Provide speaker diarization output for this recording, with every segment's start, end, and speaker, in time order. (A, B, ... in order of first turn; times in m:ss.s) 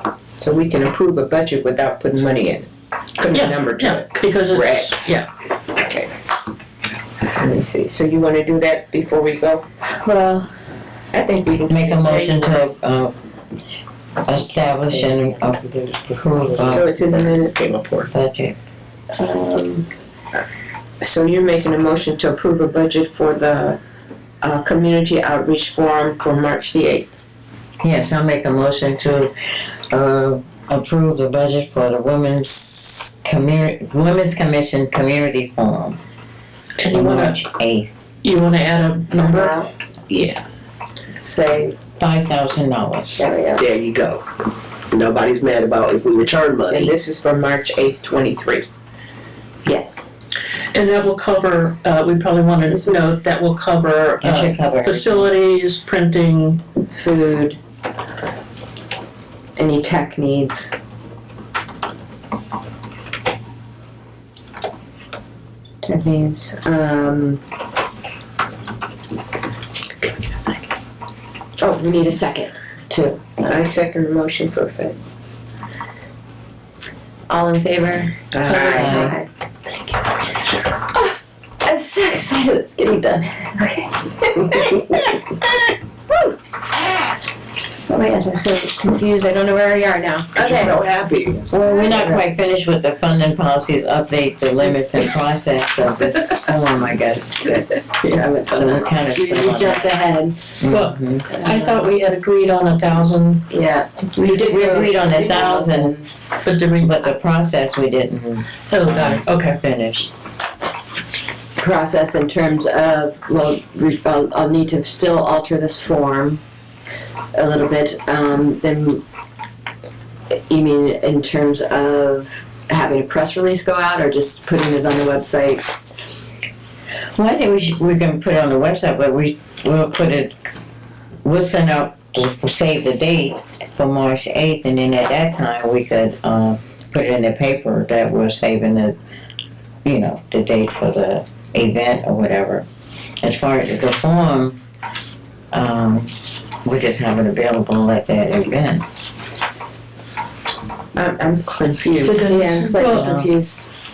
0:00.4-0:05.2 A
0:03.3-0:05.3 B
0:05.7-0:06.1 A
0:07.3-0:09.6 A
0:09.8-0:10.5 C
0:11.1-0:12.7 A
0:11.7-0:13.1 D
0:14.2-0:15.6 D
0:14.9-0:18.1 E
0:16.1-0:16.9 D
0:16.7-0:18.0 A
0:18.1-0:18.6 D
0:19.2-0:19.8 C
0:21.0-0:23.8 A
0:24.4-0:27.1 A
0:27.8-0:36.0 D
0:36.8-0:37.4 B
0:36.9-0:37.9 D
0:38.2-0:39.6 B
0:39.2-0:39.7 C
0:40.1-0:40.6 E
0:41.1-0:41.8 C
0:42.0-0:43.3 D
0:43.2-0:43.6 C
0:43.6-0:44.2 E
0:44.9-0:47.0 E
0:46.7-0:48.7 A
0:49.6-0:50.1 C
0:50.7-0:56.6 B
0:52.7-0:53.0 C
0:54.2-0:55.3 D
0:56.9-0:57.6 C
0:59.6-1:00.8 C
1:05.8-1:07.4 C
1:11.6-1:13.7 C
1:13.5-1:15.0 A
1:17.3-1:19.3 C
1:18.3-1:19.0 A
1:18.5-1:19.2 B
1:18.7-1:19.2 D
1:20.2-1:25.3 C
1:27.9-1:30.9 C
1:30.3-1:31.5 E
1:31.5-1:39.9 D
1:31.6-1:32.2 C
1:37.9-1:40.4 C
1:40.6-1:41.2 D
1:40.7-1:43.5 B
1:41.3-1:41.9 C
1:43.5-1:46.1 C
1:44.2-1:46.0 D
1:46.4-1:47.1 B
1:46.8-1:50.1 D
1:48.7-1:49.6 B
1:51.6-1:56.4 C
1:57.3-1:59.0 C
2:00.3-2:05.6 C
2:07.1-2:10.4 D
2:11.2-2:19.0 D
2:19.8-2:22.6 D
2:23.2-2:24.6 D
2:25.5-2:26.1 D
2:26.6-2:28.8 D
2:30.9-2:32.3 A
2:32.0-2:33.2 B
2:32.2-2:33.7 C
2:32.9-2:33.3 D